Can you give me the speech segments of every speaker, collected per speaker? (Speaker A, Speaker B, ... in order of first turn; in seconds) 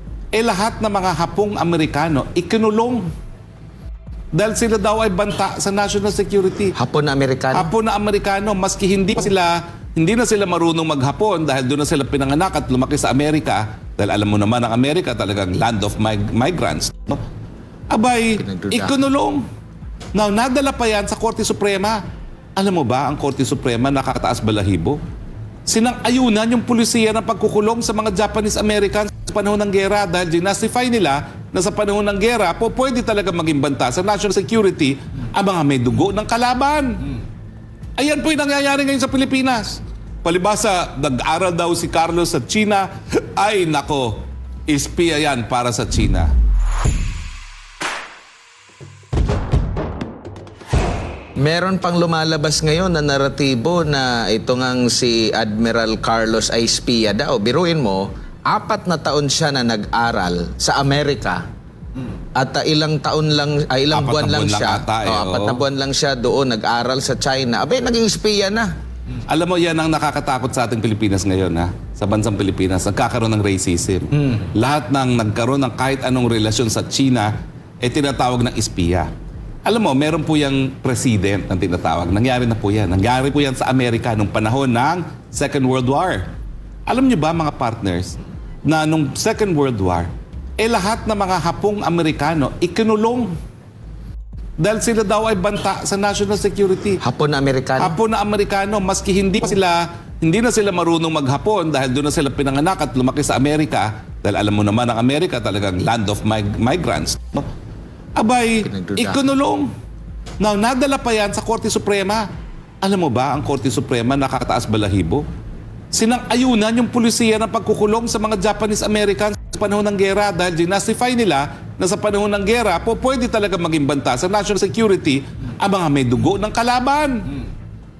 Speaker A: 0.3-3.1, 4.3-6.8, 7.5-17.2, 17.9-19.4, 20.1-22.0, 22.6-25.0, 25.7-37.1, 38.0-46.3, 63.9-65.6, 69.3-79.1, 79.7-86.3, 86.9-93.3, 94.6-97.0, 97.8-107.5, 108.2-109.7, 110.4-112.3, 112.8-115.2, 115.9-127.4
Speaker B: 6.8-7.7, 18.4-19.0, 51.4-61.4, 62.4-68.7, 97.0-98.0, 108.7-109.2